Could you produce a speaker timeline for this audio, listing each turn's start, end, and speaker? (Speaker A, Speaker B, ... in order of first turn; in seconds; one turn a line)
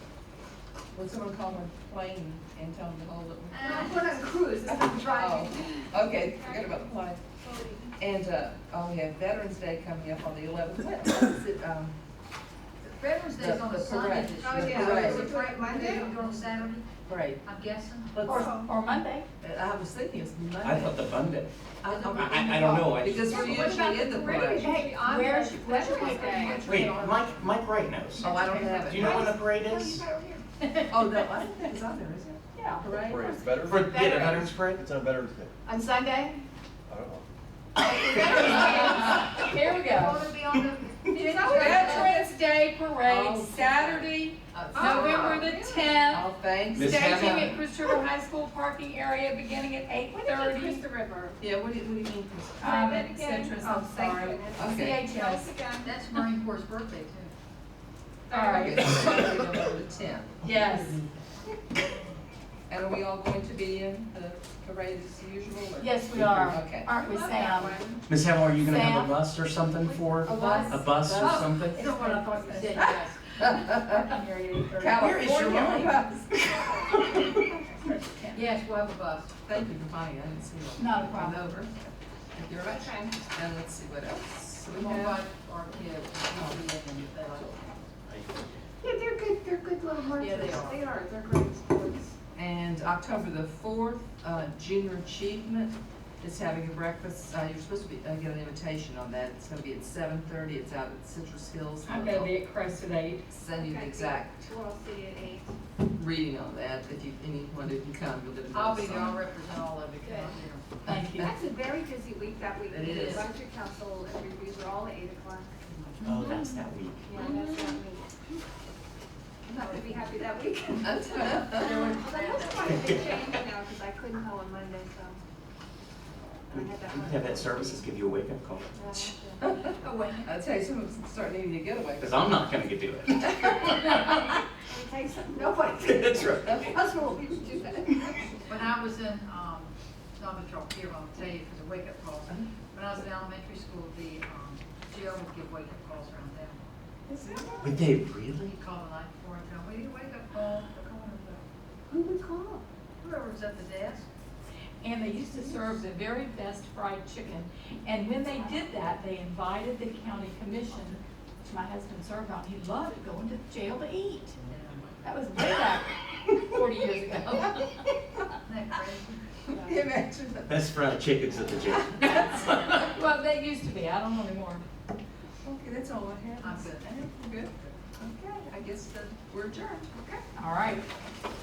Speaker A: 0.9-4.0
Speaker B: 3.5-3.9
Speaker C: 3.6-6.8
Speaker A: 4.6-7.2
Speaker C: 7.4-7.9
Speaker A: 8.0-11.9
Speaker B: 12.8-16.9
Speaker A: 13.3-15.3
Speaker C: 14.4-16.7
Speaker A: 17.1-17.4
Speaker B: 17.4-18.3
Speaker A: 18.2-18.5
Speaker D: 18.2-19.3
Speaker C: 18.3-18.6
Speaker A: 19.4-21.1
Speaker E: 20.6-21.5
Speaker A: 21.8-24.7
Speaker B: 21.9-22.2
Speaker E: 22.0-23.7
Speaker C: 23.1-27.1
Speaker D: 24.6-27.4
Speaker E: 26.6-30.0
Speaker D: 28.2-28.9
Speaker A: 28.2-29.2
Speaker C: 28.9-30.4
Speaker D: 30.6-31.2
Speaker A: 30.9-33.4
Speaker D: 32.5-32.9
Speaker F: 32.9-35.5
Speaker E: 33.6-34.8
Speaker D: 34.0-34.3
Speaker F: 36.9-37.2
Speaker D: 38.0-40.3
Speaker B: 38.1-42.0
Speaker C: 38.7-39.0
Speaker C: 41.1-42.2
Speaker A: 41.4-42.3
Speaker D: 41.5-46.3
Speaker A: 43.0-45.4
Speaker C: 44.7-46.0
Speaker A: 46.1-47.6
Speaker E: 46.7-47.5
Speaker D: 46.8-50.9
Speaker C: 50.2-51.3
Speaker A: 51.4-52.7
Speaker D: 52.6-55.5
Speaker C: 52.6-56.2
Speaker A: 54.5-55.0
Speaker B: 55.8-57.3
Speaker C: 58.3-58.9
Speaker D: 58.3-58.9
Speaker A: 58.5-60.5
Speaker D: 60.4-61.0
Speaker B: 61.7-62.2
Speaker A: 62.7-66.9
Speaker D: 65.8-67.8
Speaker C: 66.9-68.0
Speaker E: 68.1-71.8
Speaker D: 68.7-69.2
Speaker C: 69.8-70.8
Speaker A: 70.2-71.4
Speaker D: 70.3-75.3
Speaker B: 71.2-72.8
Speaker A: 72.7-74.2
Speaker A: 74.8-77.4
Speaker E: 75.0-77.2
Speaker D: 77.8-78.4
Speaker B: 78.3-79.3
Speaker A: 79.4-85.2
Speaker D: 80.8-81.6
Speaker C: 82.6-83.2
Speaker B: 84.7-87.9
Speaker A: 86.3-86.6
Speaker E: 88.1-88.4
Speaker C: 88.8-92.1
Speaker B: 90.2-90.8
Speaker A: 92.3-102.3
Speaker D: 101.8-103.2
Speaker A: 103.3-104.4
Speaker C: 103.5-105.5
Speaker A: 105.9-109.2
Speaker B: 108.5-110.8
Speaker D: 110.8-111.3
Speaker C: 111.2-115.6
Speaker A: 112.7-113.3
Speaker B: 112.9-113.3
Speaker E: 116.0-117.0
Speaker C: 117.0-118.0
Speaker A: 117.1-117.8
Speaker C: 119.5-125.2
Speaker A: 120.8-121.9
Speaker B: 121.7-122.8
Speaker C: 126.5-127.9
Speaker E: 126.9-129.1
Speaker C: 128.7-129.4
Speaker A: 129.4-132.5
Speaker E: 132.0-133.7
Speaker A: 133.1-134.1
Speaker C: 134.7-138.4
Speaker E: 135.8-136.7
Speaker A: 136.4-138.1
Speaker B: 138.4-146.7
Speaker A: 147.1-147.6
Speaker C: 147.1-147.8
Speaker E: 147.6-148.6
Speaker B: 148.5-151.4
Speaker C: 151.9-152.6
Speaker B: 153.0-154.1
Speaker D: 154.8-164.4
Speaker B: 164.4-165.2
Speaker D: 165.0-167.7
Speaker B: 168.4-169.2
Speaker A: 169.5-170.6
Speaker E: 170.5-172.3
Speaker D: 172.0-174.6
Speaker A: 175.4-179.9
Speaker B: 176.4-176.9
Speaker C: 179.9-180.2
Speaker D: 180.3-180.8